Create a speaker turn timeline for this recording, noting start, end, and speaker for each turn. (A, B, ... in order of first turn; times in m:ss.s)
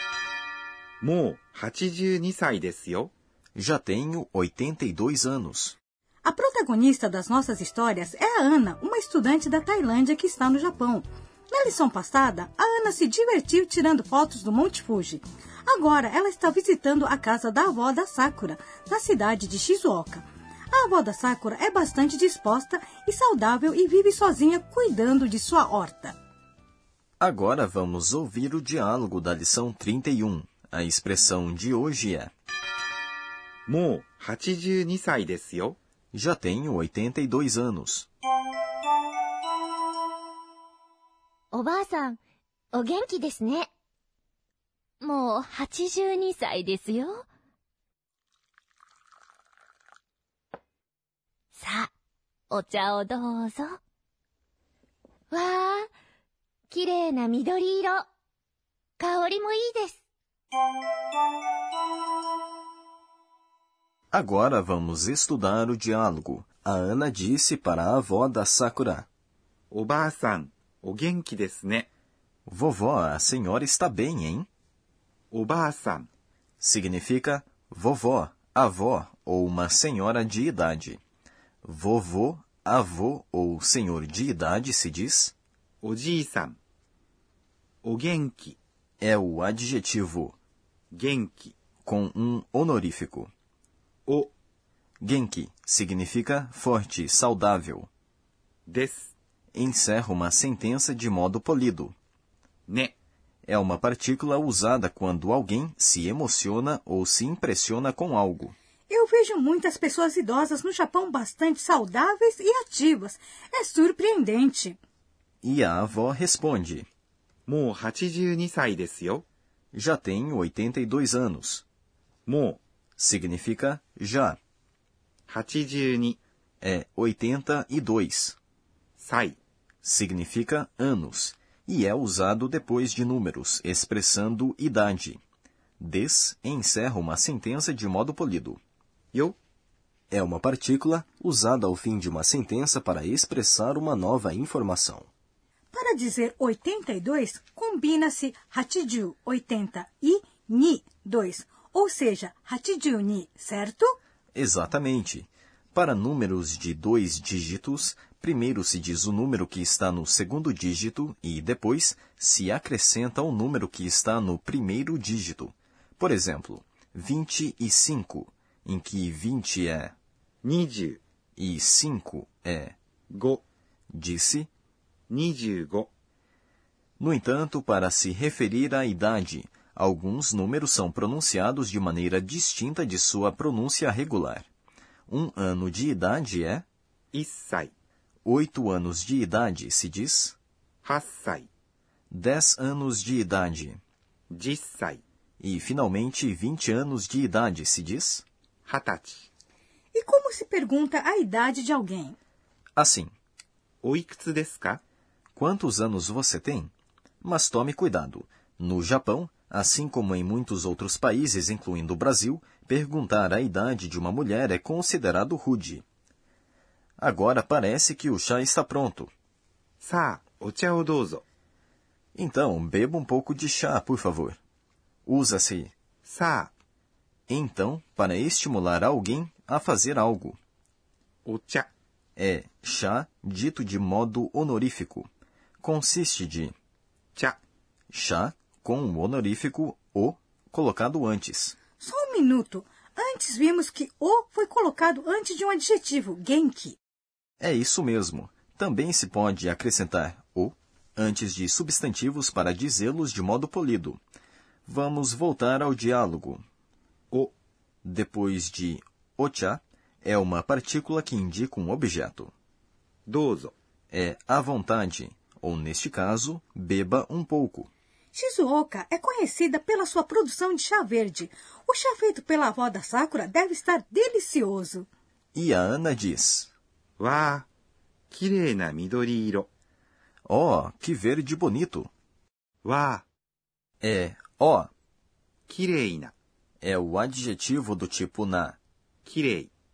0:01.0-0:03.1 A
0:03.6-0:05.8 B
0:06.2-0:26.2 C
0:27.2-0:32.3 B
0:33.7-0:35.8 A
0:36.1-0:38.1 B
0:41.5-0:42.2 D
0:42.7-0:43.7 D
0:45.0-0:47.3 D
0:51.5-0:51.9 D
0:52.5-0:53.8 D
0:55.3-0:55.9 D
0:56.7-0:58.0 D
0:59.0-1:00.0 D
1:04.1-1:09.1 B
1:09.7-1:11.9 A
1:12.5-1:14.5 B
1:15.3-1:16.1 A
1:16.6-1:21.0 B
1:21.6-1:25.3 B
1:25.8-1:26.6 A
1:27.8-1:28.6 A
1:29.0-1:30.4 B
1:30.9-1:31.6 A
1:31.8-1:33.3 B
1:35.0-1:37.9 B
1:38.7-1:39.1 A
1:39.5-1:42.0 B
1:42.7-1:43.0 A
1:43.4-1:48.6 B
1:48.9-1:54.8 C
1:55.4-1:56.9 B
1:57.5-1:59.2 A
1:59.7-2:01.6 B
2:02.3-2:02.6 A
2:03.0-2:04.4 B
2:05.3-2:06.2 A
2:06.6-2:08.4 B
2:09.0-2:09.4 A
2:09.8-2:15.2 B
2:15.8-2:18.6 B
2:20.1-2:25.1 B
2:25.7-2:34.0 C
2:34.3-2:49.9 B
2:50.4-2:51.0 A
2:51.4-2:52.8 B
2:53.1-2:53.4 A
2:53.9-2:54.5 B
2:55.1-2:55.9 A
2:57.0-3:04.5 B
3:05.1-3:06.6 B
3:07.1-3:07.7 A
3:08.2-3:10.4 B
3:10.8-3:11.5 A
3:12.1-3:13.8 B
3:14.3-3:15.0 A
3:15.4-3:18.2 B
3:18.7-3:19.3 A
3:19.9-3:22.2 C
3:22.8-3:23.1 B
3:23.8-3:24.8 A
3:25.3-3:26.7 B
3:27.2-3:35.8 B
3:37.0-3:39.1 B
3:39.8-3:41.2 A
3:42.1-3:44.4 B
3:45.0-3:45.7 B
3:46.0-3:46.5 A
3:47.3-3:50.4 B
3:51.2-3:51.7 A
3:52.2-3:55.1 B
3:55.6-3:56.5 B
3:57.9-4:01.6 B
4:01.8-4:06.8 C
4:07.4-4:14.0 B
4:14.6-4:16.4 B
4:17.8-4:22.3 B
4:23.1-4:23.5 A
4:23.9-4:27.7 B
4:28.1-4:34.9 C
4:35.3-4:36.5 B
4:37.0-4:37.5 A
4:38.1-4:39.5 A
4:40.2-4:41.9 B
4:42.6-4:43.0 A
4:43.8-4:44.7 B
4:45.5-4:46.1 A
4:46.6-4:48.6 B
4:49.0-4:49.5 A